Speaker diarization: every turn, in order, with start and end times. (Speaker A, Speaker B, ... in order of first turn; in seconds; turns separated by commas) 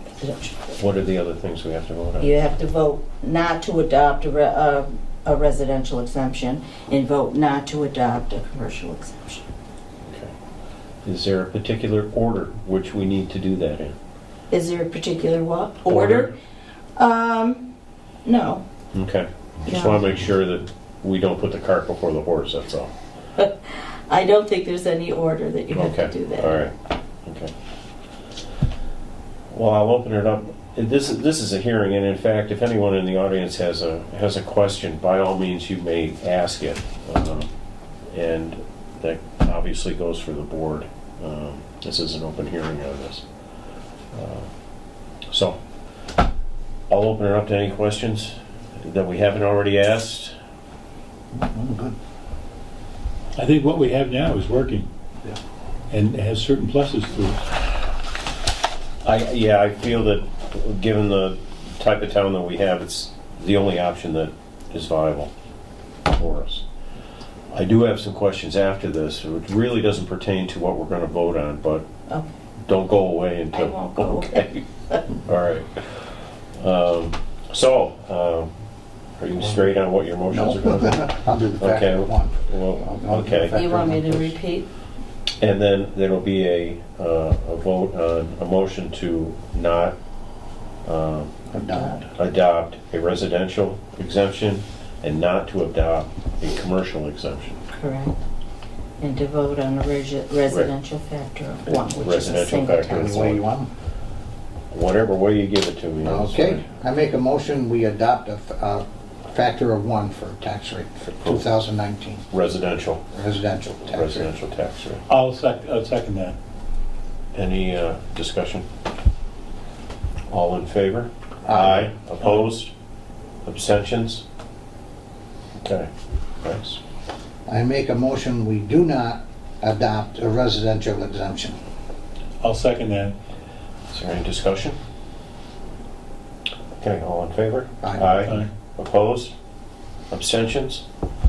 Speaker A: 0.2-0.6, Speaker B: 0.8-2.3, Speaker A: 2.2-9.4, Speaker B: 10.0-10.3, Speaker B: 11.0-13.9, Speaker A: 14.5-16.3, Speaker B: 15.9-16.3, Speaker A: 17.0-17.6, Speaker A: 18.2-18.6, Speaker B: 18.9-22.9, Speaker A: 19.6-20.0, Speaker A: 23.4-26.6, Speaker B: 25.7-26.7, Speaker B: 27.2-27.5, Speaker B: 29.5-37.5, Speaker B: 38.1-43.2, Speaker B: 44.1-44.5, Speaker B: 45.3-45.6, Speaker B: 46.9-50.3, Speaker C: 51.3-52.0, Speaker D: 53.4-54.9, Speaker D: 55.9-57.4, Speaker B: 59.0-65.3, Speaker B: 66.1-66.6, Speaker B: 67.5-71.8, Speaker B: 72.7-74.6, Speaker A: 73.5-75.0, Speaker B: 75.2-76.1, Speaker B: 76.6-78.5, Speaker B: 79.2-83.6, Speaker C: 80.3-84.3, Speaker A: 83.5-84.7, Speaker B: 85.4-89.9, Speaker B: 90.8-91.3, Speaker C: 91.5-92.1, Speaker B: 92.1-97.6, Speaker A: 97.7-98.1, Speaker A: 99.0-103.3, Speaker B: 101.7-103.4, Speaker C: 102.8-103.7, Speaker B: 104.7-106.6, Speaker C: 106.0-112.2, Speaker B: 111.2-111.5, Speaker B: 112.3-113.0, Speaker C: 113.1-114.3, Speaker B: 113.9-115.0, Speaker D: 115.1-116.3, Speaker B: 117.3-118.7, Speaker B: 120.3-122.7, Speaker C: 121.5-122.0, Speaker B: 123.5-124.2, Speaker B: 125.6-125.9, Speaker B: 126.4-126.8, Speaker C: 127.5-131.6, Speaker D: 132.4-133.1, Speaker B: 133.9-134.8, Speaker B: 136.8-139.3, Speaker C: 137.8-138.3, Speaker B: 140.1-140.8